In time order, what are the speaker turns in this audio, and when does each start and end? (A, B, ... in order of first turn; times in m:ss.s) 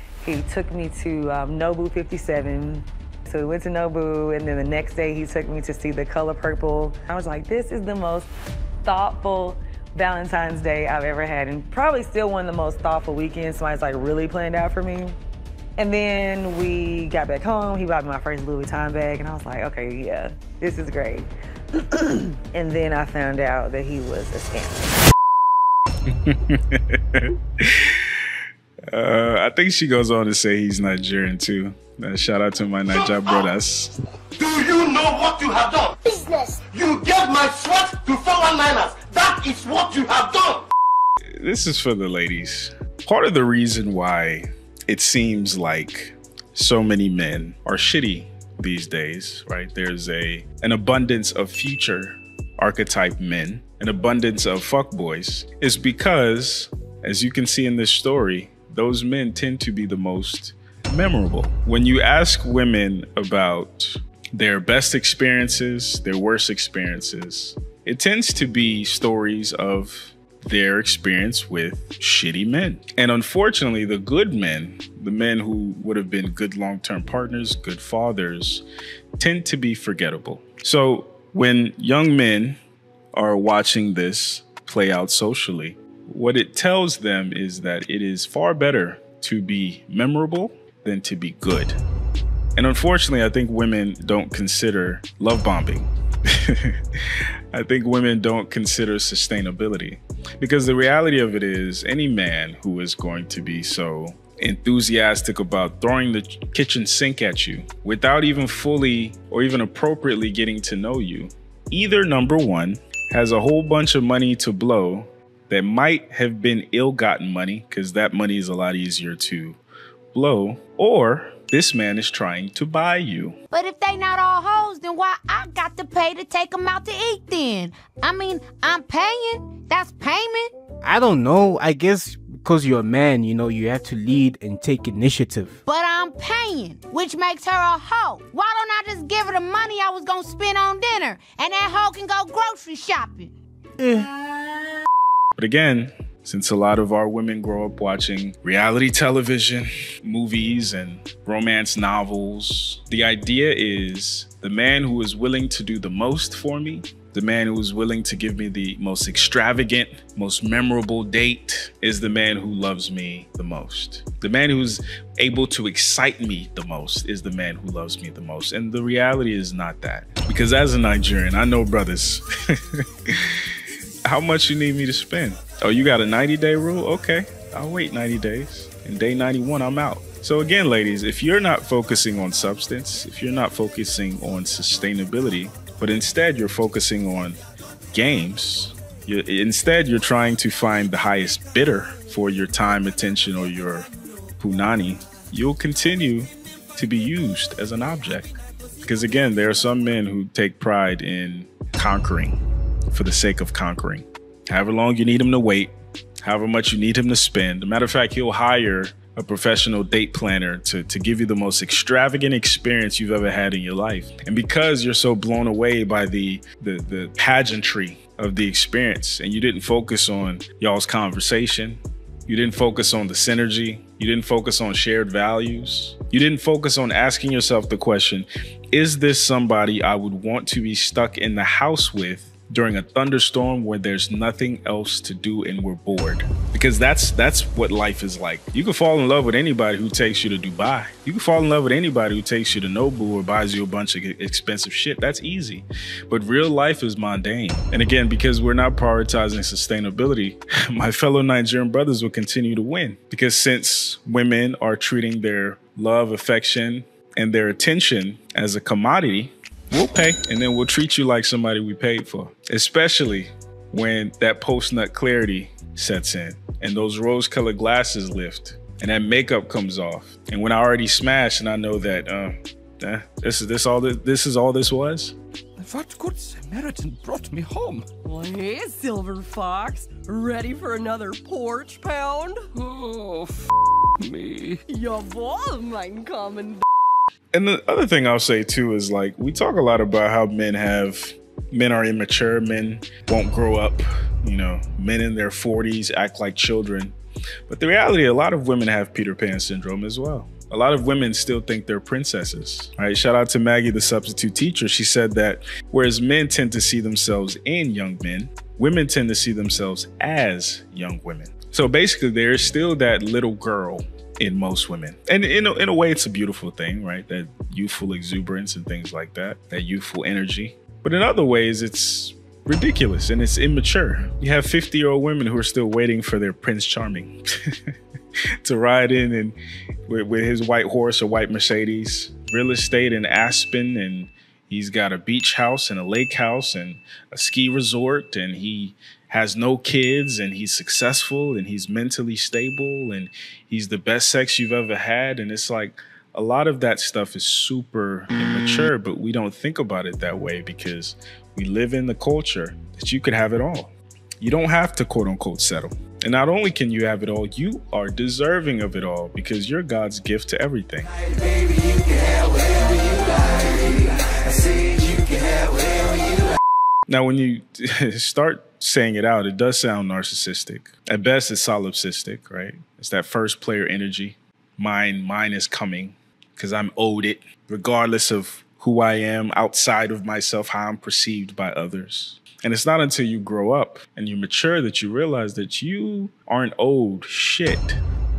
0:00.2-0:08.3 A
0:08.8-0:15.2 A
0:15.8-0:21.3 A
0:21.9-0:24.9 A
0:26.2-0:28.1 B
0:28.9-0:33.9 B
0:32.9-0:33.5 C
0:34.4-0:40.6 C
0:41.4-1:18.6 B
1:19.2-1:22.6 B
1:23.1-1:31.8 B
1:32.6-1:36.8 B
1:37.5-1:59.6 B
2:00.1-2:03.4 B
2:03.5-2:10.5 D
2:10.8-2:15.6 E
2:15.7-2:23.3 D
2:23.8-2:24.1 E
2:25.4-2:52.2 B
2:54.1-3:07.4 B
3:07.9-3:22.4 B
3:22.9-4:35.2 B
4:35.6-4:37.9 F
4:38.0-4:42.4 G
4:42.6-4:43.4 F
4:44.0-4:44.6 F
4:44.7-4:46.6 G
4:47.3-4:57.0 B
4:57.5-5:27.2 B
5:28.4-5:29.4 B
5:29.9-6:00.9 B
6:06.9-6:27.8 B